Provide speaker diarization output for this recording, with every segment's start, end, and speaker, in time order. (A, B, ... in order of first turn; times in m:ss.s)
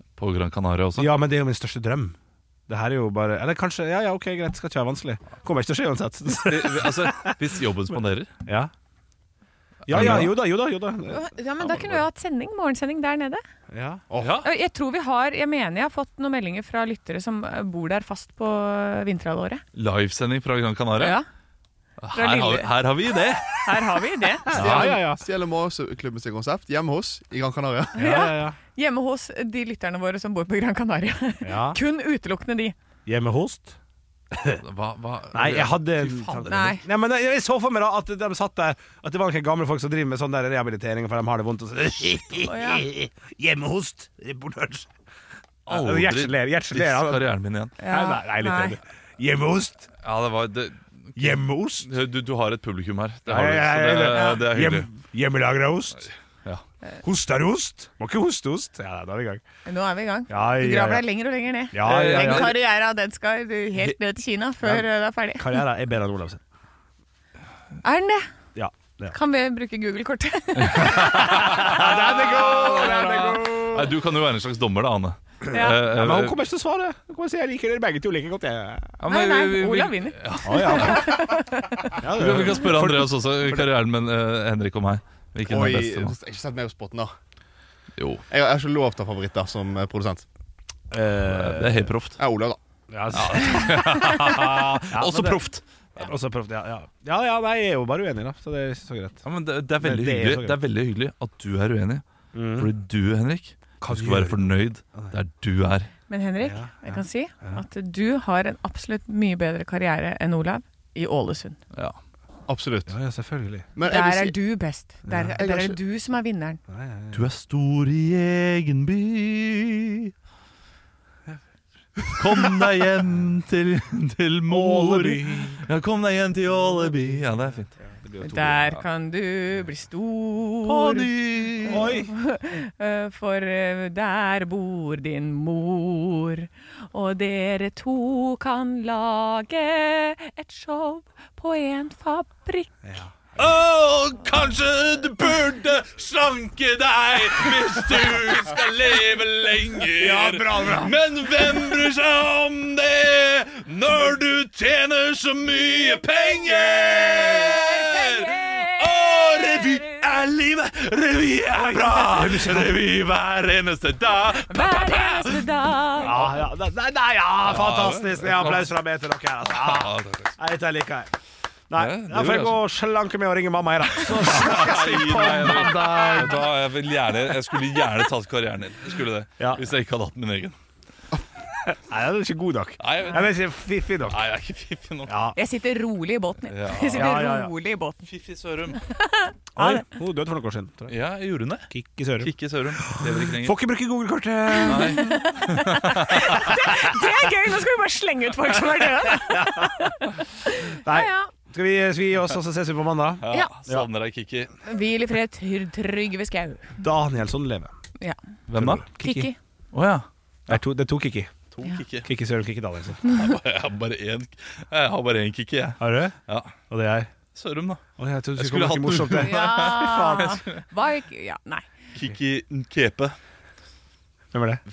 0:00.2-0:01.2 A
0:01.0-0:02.2 B
0:02.7-0:07.4 B
0:06.4-0:08.3 A
0:08.5-0:08.7 B
0:09.9-0:12.0 B
0:09.9-0:10.4 A
0:11.1-0:13.4 C
0:13.7-0:14.4 B
0:14.2-0:14.5 A
0:14.4-0:19.6 C
0:19.7-0:21.2 A
0:21.0-0:21.2 C
0:22.0-0:23.6 A
0:22.1-0:22.7 C
0:23.6-0:24.5 C
0:24.5-0:25.2 B
0:24.6-0:24.9 A
0:24.6-0:28.0 D
0:28.0-0:32.8 C
0:28.0-0:28.6 B
0:31.4-0:31.8 B
0:33.1-0:33.8 B
0:34.3-0:34.6 B
0:34.6-0:36.8 A
0:35.3-0:44.9 B
0:36.5-0:36.8 C
0:42.4-0:42.8 C
0:45.7-0:47.3 B
0:45.7-0:47.7 A
0:47.8-0:48.8 C
0:47.8-0:49.9 B
0:50.0-0:54.9 A
0:51.2-0:51.9 B
0:53.3-0:56.1 B
0:57.0-0:59.4 B
0:59.6-1:05.6 C
1:00.3-1:01.0 B
1:01.7-1:02.6 B
1:01.8-1:02.6 A
1:05.4-1:06.4 B
1:07.8-1:08.3 C
1:08.6-1:09.2 B
1:09.1-1:11.6 C
1:10.6-1:16.4 A
1:10.8-1:13.9 B
1:15.5-1:15.8 C
1:15.9-1:18.9 B
1:19.0-1:21.0 A
1:19.1-1:22.0 C
1:20.4-1:21.1 B
1:22.0-1:23.7 B
1:22.2-1:26.1 A
1:25.4-1:27.1 D
1:28.0-1:28.2 A
1:28.3-1:30.2 D
1:30.9-1:31.9 B
1:31.2-1:32.2 A
1:32.2-1:32.6 D
1:32.9-1:35.4 B
1:33.1-1:35.6 A
1:36.0-1:39.2 B
1:39.2-1:45.9 A
1:39.8-1:40.6 B
1:42.3-1:42.7 B
1:43.8-1:45.1 B
1:46.1-1:51.6 C
1:46.4-1:47.6 B
1:52.5-1:53.0 D
1:52.9-1:53.7 B
1:53.7-1:54.4 D
1:53.9-1:56.6 C
1:55.1-1:55.4 B
1:55.4-1:55.8 D
1:56.7-1:57.2 B
1:57.1-2:00.1 A
2:02.0-2:02.5 B
2:02.2-2:07.7 A
2:04.5-2:05.6 B
2:06.8-2:08.8 B
2:08.2-2:22.8 C
2:10.6-2:12.0 A
2:11.6-2:12.1 B
2:22.8-2:23.2 B
2:23.4-2:45.4 A
2:30.0-2:30.9 B
2:37.3-2:40.0 C
2:41.5-2:42.8 B
2:44.5-2:46.3 C
2:46.0-2:51.1 B
2:47.4-2:48.7 A
2:49.5-2:50.4 A
2:51.7-2:56.5 B
2:51.8-2:52.6 A
2:54.0-3:00.6 A
3:01.7-3:04.2 B
3:02.8-3:03.3 A
3:04.1-3:05.1 A
3:05.1-3:05.4 B
3:05.4-3:08.1 C
3:06.5-3:07.1 A
3:06.9-3:07.5 B
3:08.1-3:08.8 A
3:08.9-3:09.8 C
3:09.6-3:11.0 B
3:10.9-3:13.6 A
3:11.7-3:15.0 B
3:14.5-3:21.3 C
3:14.6-3:16.2 A
3:19.3-3:19.7 B
3:20.8-3:23.9 B
3:23.2-3:24.5 A
3:24.6-3:26.8 C
3:26.8-3:27.7 B
3:28.5-3:28.8 A
3:28.5-3:29.3 B
3:29.0-3:29.4 C
3:29.7-3:30.6 A
3:30.5-3:31.3 B
3:31.5-3:32.1 A
3:32.0-3:33.0 B
3:33.0-3:36.6 A
3:35.8-3:36.2 B
3:36.7-3:37.1 B
3:37.3-3:40.6 A
3:38.0-3:40.2 B
3:39.2-3:41.7 C
3:41.9-3:43.2 A
3:44.3-3:44.6 B